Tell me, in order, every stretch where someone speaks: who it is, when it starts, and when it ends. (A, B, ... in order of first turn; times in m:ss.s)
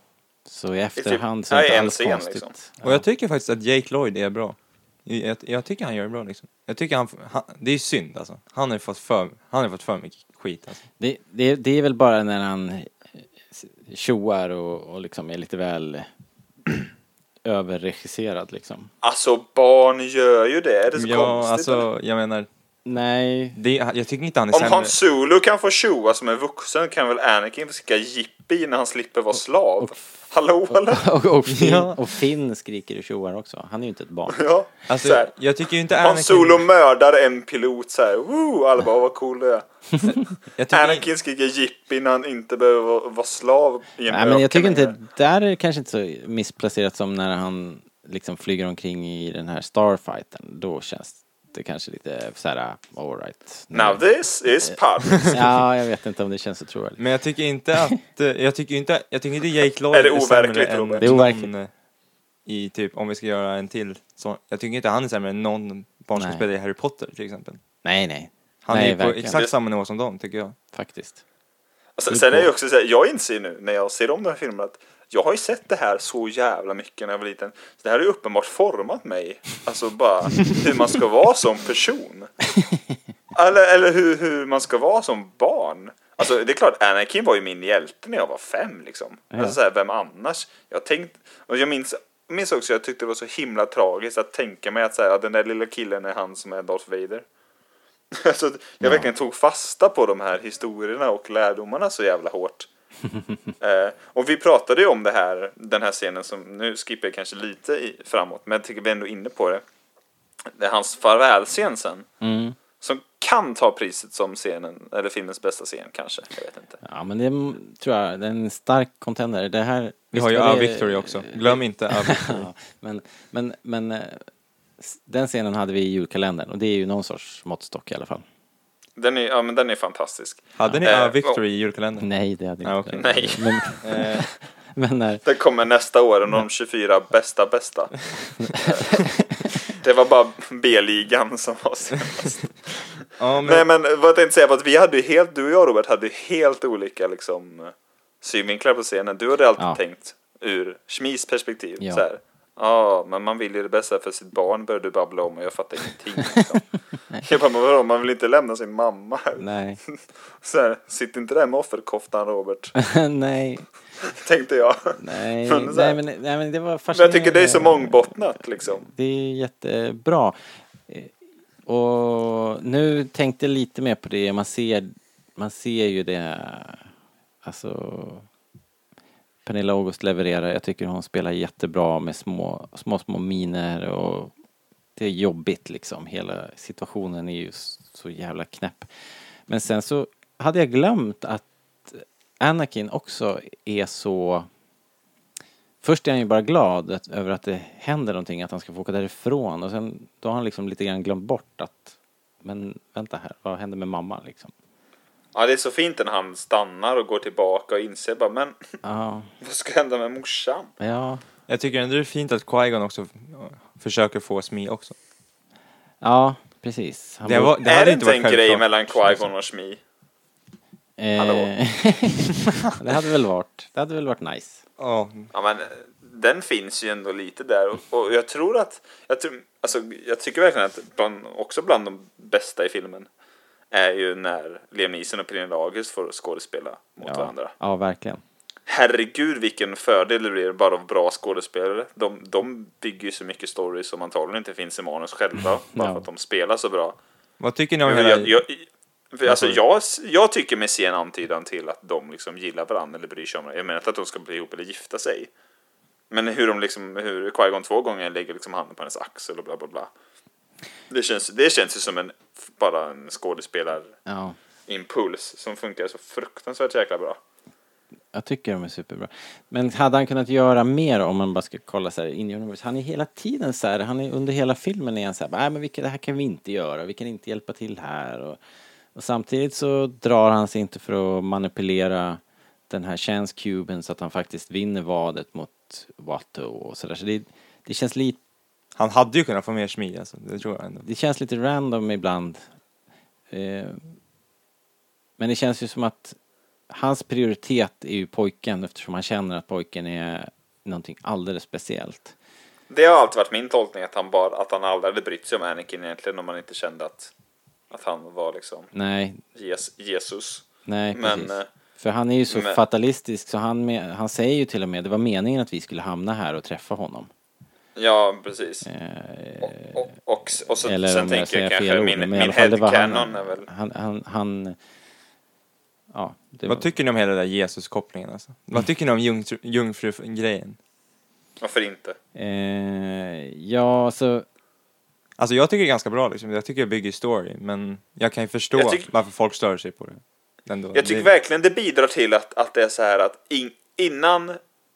0:00.4-0:03.0 A
0:01.0-0:02.5 B
0:02.8-0:10.8 C
0:11.0-0:12.9 A
0:13.5-0:16.1 A
0:17.4-0:18.9 A
0:19.0-0:21.8 B
0:20.9-0:22.5 C
0:22.8-0:23.6 A
0:23.5-0:25.0 C
0:24.5-0:31.1 B
0:30.7-0:34.4 A
0:31.4-0:32.0 C
0:34.3-0:35.3 B
0:34.9-0:36.6 C
0:35.9-0:39.6 B
0:40.6-0:41.0 C
0:40.7-0:45.0 B
0:44.1-0:54.0 A
0:53.7-0:55.4 B
0:54.6-0:57.0 A
0:57.0-1:01.7 C
0:59.9-1:01.1 B
1:01.0-1:01.5 A
1:02.4-1:07.6 C
1:06.2-1:06.4 A
1:07.8-1:09.4 A
1:08.6-1:10.6 C
1:10.7-1:11.2 A
1:12.0-1:22.3 B
1:12.1-1:12.5 A
1:23.3-1:37.2 B
1:38.1-1:42.7 B
1:38.8-1:39.1 A
1:43.6-1:49.6 B
1:50.6-1:52.1 B
1:52.2-1:52.6 A
1:52.8-1:56.8 B
1:56.8-2:04.2 A
2:00.1-2:02.4 C
2:04.8-2:08.2 A
2:09.0-2:11.4 B
2:10.6-2:14.3 C
2:12.0-2:15.2 A
2:13.0-2:13.7 B
2:15.2-2:17.9 B
2:18.5-2:19.1 A
2:18.6-2:18.9 B
2:19.8-2:22.5 B
2:23.2-2:23.6 C
2:23.4-2:36.7 B
2:31.8-2:32.0 A
2:37.2-2:39.4 B
2:39.4-2:39.8 A
2:40.4-2:42.8 B
2:42.8-2:43.6 A
2:44.0-2:46.0 B
2:45.0-2:50.4 A
2:46.9-2:48.9 B
2:50.9-2:51.1 A
2:51.6-2:56.9 A
2:57.4-2:58.2 A
2:59.4-3:04.3 A
3:05.0-3:08.9 A
3:09.5-3:14.5 A
3:15.8-3:24.5 A
3:25.3-3:28.5 B
3:28.8-3:29.3 A
3:29.4-3:30.7 B
3:30.8-3:31.2 A
3:31.5-3:34.9 C
3:36.0-3:37.6 A
3:37.2-3:39.2 C
3:37.6-3:39.8 B
3:41.0-3:44.6 A
3:41.2-3:41.5 B
3:44.8-3:45.3 C
3:45.3-3:53.1 B
3:53.7-3:57.5 B
3:57.0-3:58.2 A
3:58.7-4:07.0 B
4:05.7-4:06.0 A
4:07.4-4:08.4 C
4:07.8-4:15.3 B
4:09.3-4:09.6 C
4:16.1-4:19.9 B
4:20.9-4:23.9 B
4:24.0-4:24.4 A
4:24.7-4:27.2 B
4:28.1-4:38.4 A
4:38.9-4:48.2 A
4:48.8-4:50.8 C
4:50.8-4:52.4 A
4:53.3-4:53.8 A
4:55.2-4:56.2 A
4:56.7-5:02.1 A
5:02.7-5:07.1 B
5:07.7-5:08.7 B
5:08.7-5:09.2 A
5:09.3-5:11.5 B
5:10.6-5:17.1 A
5:12.3-5:12.6 B
5:17.8-5:18.7 B
5:18.6-5:19.8 A
5:19.4-5:23.5 B
5:20.6-5:24.6 A
5:25.9-5:26.7 A
5:26.4-5:30.6 C
5:31.4-5:32.0 B
5:32.1-5:34.2 A
5:35.2-5:41.1 C
5:38.5-5:38.9 B
5:40.7-5:44.4 B